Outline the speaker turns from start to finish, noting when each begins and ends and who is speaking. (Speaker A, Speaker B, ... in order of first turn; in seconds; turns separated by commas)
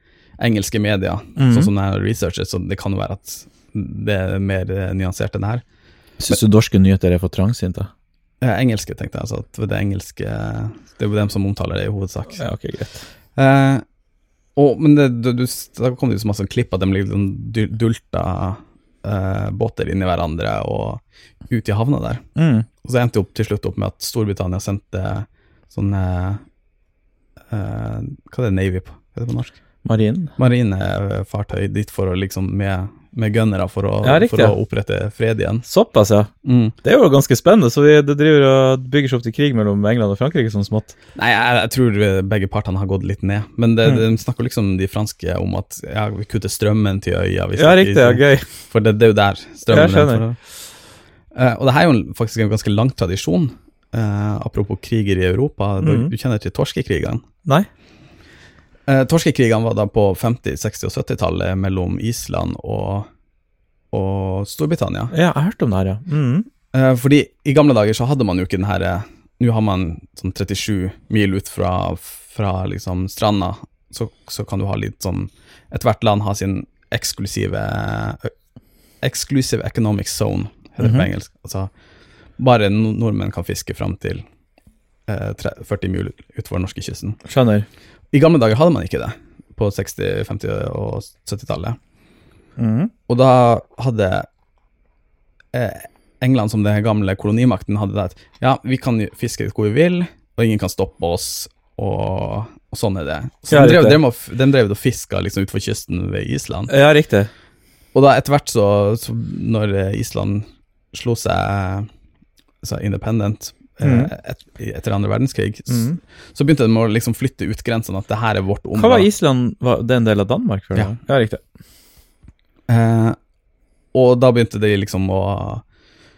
Speaker A: 0.4-5.6, Speaker B: 1.4-1.7, Speaker B: 6.2-7.9, Speaker A: 8.4-12.4, Speaker B: 12.3-13.0, Speaker A: 13.4-13.8, Speaker A: 14.6-22.2, Speaker B: 22.4-22.7, Speaker A: 22.8-26.4, Speaker A: 27.5-29.6, Speaker B: 29.9-30.3, Speaker A: 30.4-35.7, Speaker B: 34.0-34.6, Speaker B: 35.6-36.3, Speaker A: 36.4-36.8, Speaker B: 36.8-41.0, Speaker A: 41.2-50.4, Speaker B: 47.6-48.5, Speaker B: 49.7-50.2, Speaker A: 51.3-57.2, Speaker B: 55.8-56.1, Speaker A: 58.9-63.1, Speaker A: 63.9-65.1, Speaker B: 65.1-66.5, Speaker A: 66.7-78.3, Speaker A: 79.0-81.7, Speaker B: 80.8-81.1, Speaker A: 82.4-84.2, Speaker A: 85.1-87.2, Speaker B: 87.2-87.7, Speaker A: 88.1-91.8, Speaker B: 92.6-92.9, Speaker A: 93.1-94.3, Speaker A: 95.5-106.7, Speaker B: 103.5-104.0, Speaker B: 106.7-107.3, Speaker A: 107.9-111.9, Speaker A: 112.6-119.1, Speaker B: 113.8-114.1, Speaker B: 115.7-116.0, Speaker B: 118.8-121.4, Speaker A: 122.7-123.2, Speaker A: 123.9-125.6